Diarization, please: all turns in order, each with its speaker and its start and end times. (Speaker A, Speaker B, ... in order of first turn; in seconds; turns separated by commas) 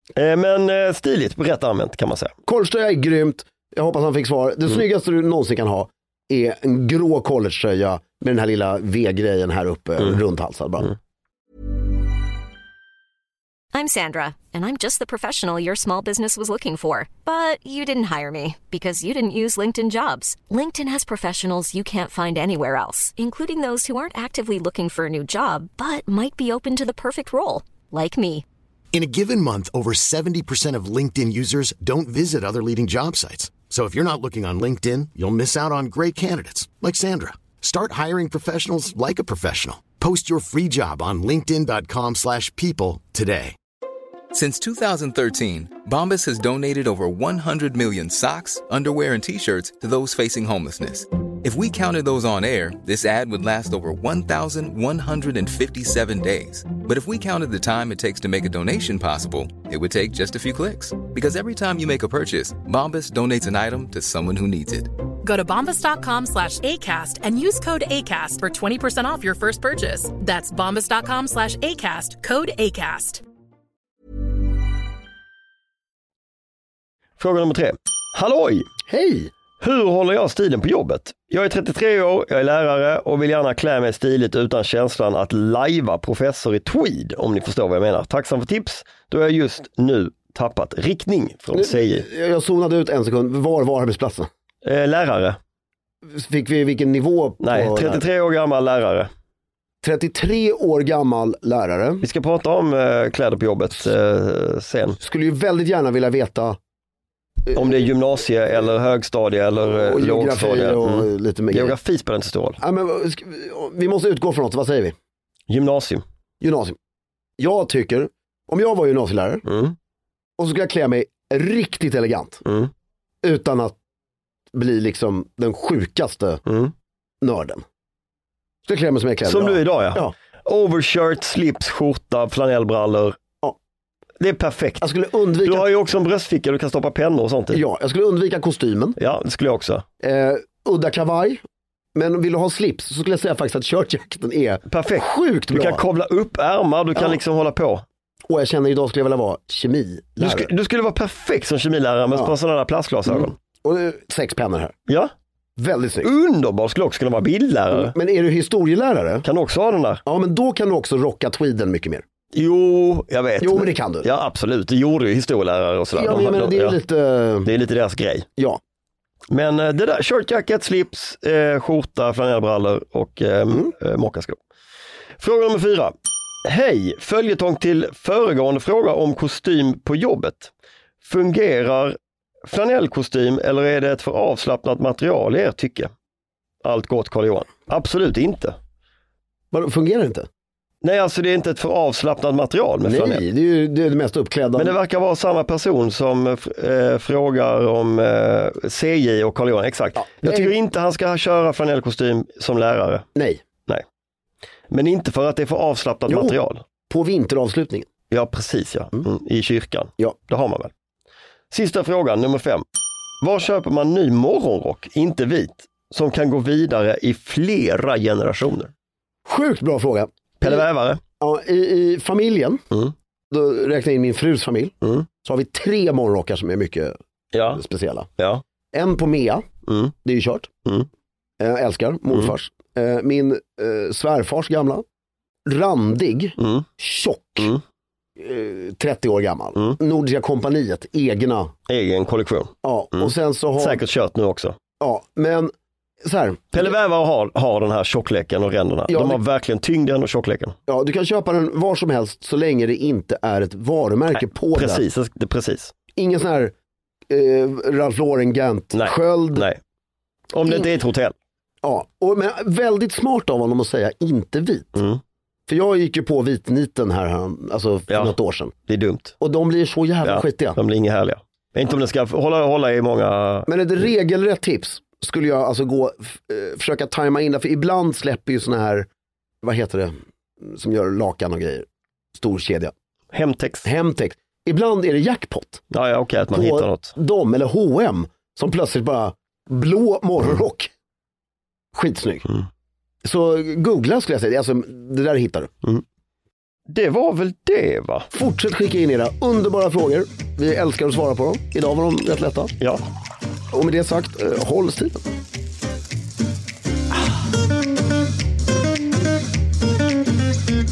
Speaker A: 0.2-2.3, Speaker B: 2.5-10.9, Speaker C: 13.7-28.4, Speaker D: 28.9-43.6, Speaker E: 44.3-64.9, Speaker F: 65.2-73.2, Speaker A: 77.2-78.7, Speaker B: 78.9-79.3, Speaker A: 79.6-92.1, Speaker B: 91.5-94.3, Speaker A: 94.6-95.4, Speaker B: 96.1-98.0, Speaker A: 97.4-99.1, Speaker B: 99.8-102.1, Speaker A: 102.0-105.0, Speaker B: 105.0-106.6, Speaker B: 107.5-107.9, Speaker A: 107.5-112.6, Speaker B: 109.8-111.8, Speaker B: 112.6-115.0, Speaker A: 115.5-116.0, Speaker B: 116.4-116.8, Speaker B: 117.4-119.5, Speaker A: 119.5-119.8, Speaker B: 120.4-122.4, Speaker A: 122.5-122.7, Speaker B: 123.2-123.8, Speaker B: 124.5-126.4, Speaker A: 126.5-126.7, Speaker B: 127.2-127.6, Speaker B: 128.7-130.1, Speaker A: 129.2-133.2, Speaker A: 134.2-134.9, Speaker B: 134.8-135.7, Speaker A: 135.4-137.6, Speaker B: 137.5-139.0, Speaker A: 139.0-139.8, Speaker B: 140.0-141.4, Speaker B: 141.9-145.8, Speaker A: 144.7-147.8, Speaker B: 146.9-147.2, Speaker B: 148.3-150.5, Speaker A: 150.2-153.4, Speaker B: 153.1-154.7, Speaker B: 155.6-156.1, Speaker A: 156.0-157.9, Speaker B: 157.7-159.3, Speaker A: 159.2-160.0, Speaker B: 160.1-162.0, Speaker A: 162.3-166.8, Speaker B: 163.4-164.1, Speaker B: 165.9-167.5, Speaker A: 167.4-168.3, Speaker A: 169.3-174.4, Speaker A: 175.2-175.9, Speaker A: 176.4-185.9, Speaker A: 186.6-188.6, Speaker B: 189.5-190.3, Speaker A: 190.8-193.2, Speaker B: 192.8-194.8, Speaker A: 194.6-203.0, Speaker B: 200.0-200.5, Speaker B: 203.2-203.4, Speaker A: 204.7-206.6, Speaker B: 206.1-207.9, Speaker A: 208.1-210.7, Speaker A: 211.5-212.6, Speaker A: 213.2-218.7, Speaker B: 219.3-220.7, Speaker A: 220.4-221.0, Speaker B: 221.2-222.6, Speaker B: 223.3-224.7, Speaker A: 224.8-225.1, Speaker B: 225.2-226.9, Speaker A: 227.3-227.6, Speaker B: 227.5-228.1, Speaker B: 228.7-229.4, Speaker A: 229.7-229.9, Speaker B: 230.0-230.5, Speaker B: 231.4-234.8, Speaker B: 235.5-237.5, Speaker A: 236.4-236.7, Speaker B: 238.2-241.5, Speaker A: 241.7-244.6, Speaker B: 242.6-243.8, Speaker B: 244.8-245.5, Speaker B: 246.1-246.8, Speaker A: 246.5-250.5, Speaker B: 248.9-249.2, Speaker B: 250.7-254.8, Speaker A: 254.2-255.7, Speaker B: 256.0-256.5, Speaker B: 257.1-259.5, Speaker A: 258.7-259.6, Speaker A: 260.3-261.1, Speaker B: 260.4-260.8, Speaker B: 261.6-264.8, Speaker A: 264.8-265.0, Speaker B: 265.5-268.5, Speaker A: 267.9-268.2, Speaker A: 268.7-269.1, Speaker B: 269.2-270.6, Speaker A: 270.0-273.5, Speaker B: 273.5-278.9, Speaker B: 279.4-282.7, Speaker A: 283.1-283.7, Speaker B: 283.6-285.6, Speaker A: 285.7-286.9, Speaker B: 286.3-290.7, Speaker B: 291.7-292.2, Speaker B: 293.0-295.5, Speaker A: 296.7-298.1, Speaker B: 298.1-302.5, Speaker B: 303.5-305.0